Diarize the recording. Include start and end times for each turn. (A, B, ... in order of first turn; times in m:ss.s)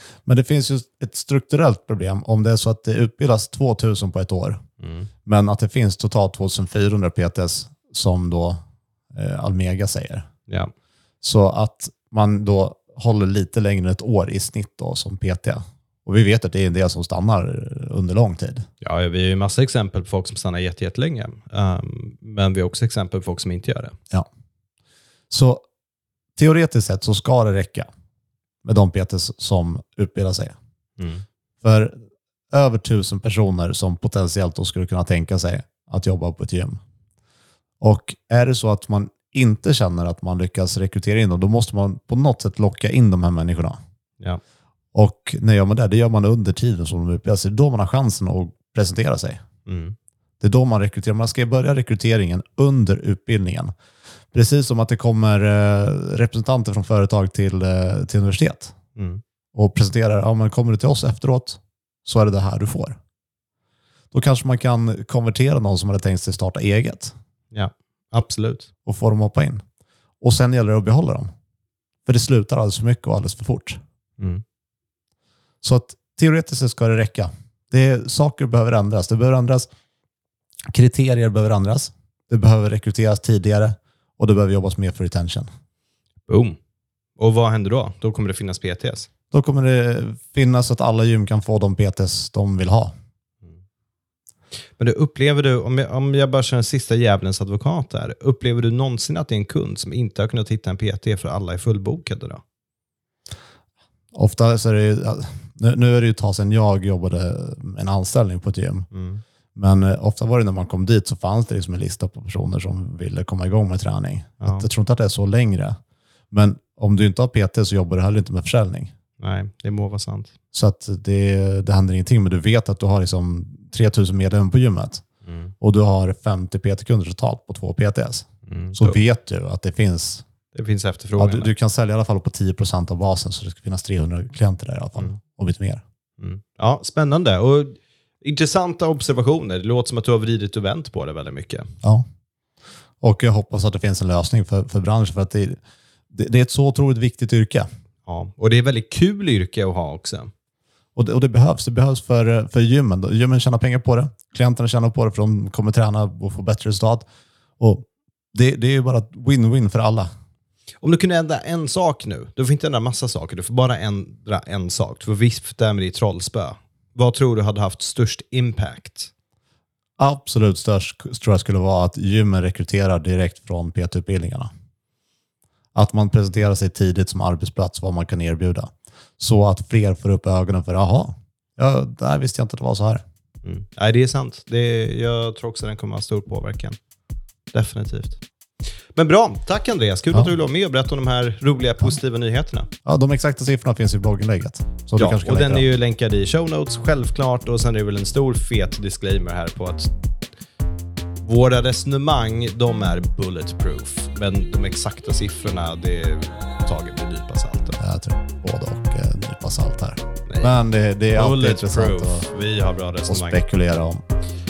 0:00.3-0:04.6 A
0:04.8-0:05.1 B
0:05.3-0:08.6 A
0:09.1-0:10.3 A
0:11.2-0:18.7 A
0:18.8-0:24.0 B
0:25.3-0:25.6 A
0:26.4-0:27.9 A
0:28.6-0:30.5 A
0:31.0-0:31.2 B
0:31.6-0:32.0 A
0:32.5-0:36.8 A
0:37.8-0:43.8 A
0:44.9-0:49.4 A
0:49.7-0:50.0 B
0:50.4-0:53.7 A
0:54.3-0:58.7 A
0:59.0-0:59.2 B
0:59.6-1:03.0 A
1:04.1-1:07.1 A
1:07.5-1:08.7 B
1:08.9-1:09.6 A
1:10.2-1:11.3 A
1:12.1-1:13.8 A
1:14.2-1:14.4 B
1:15.6-1:19.7 A
1:20.7-1:25.5 A
1:26.3-1:26.6 B
1:27.2-1:29.1 B
1:29.3-1:32.9 A
1:34.8-1:42.4 B
1:44.1-1:48.9 A
1:48.9-1:49.2 B
1:49.6-1:55.8 A
1:54.4-1:54.7 B
1:56.3-1:58.9 A
1:59.2-2:00.3 B
2:00.5-2:05.0 A
2:05.2-2:05.5 B
2:05.6-2:10.2 A
2:08.5-2:09.0 B
2:10.5-2:11.5 B
2:11.2-2:15.8 A
2:16.2-2:21.8 B
2:23.0-2:25.6 A
2:26.1-2:27.7 A
2:28.1-2:30.3 B
2:31.0-2:37.0 A
2:37.6-2:40.1 A
2:40.8-2:49.1 B
2:50.0-2:54.5 A
2:55.8-3:03.0 A
3:03.4-3:06.8 B
3:07.5-3:08.2 B
3:09.0-3:12.7 B
3:12.8-3:15.7 A
3:15.0-3:19.9 B
3:21.2-3:27.8 B
3:27.8-3:32.3 A
3:30.3-3:30.5 B
3:31.1-3:33.4 B
3:33.1-3:34.0 A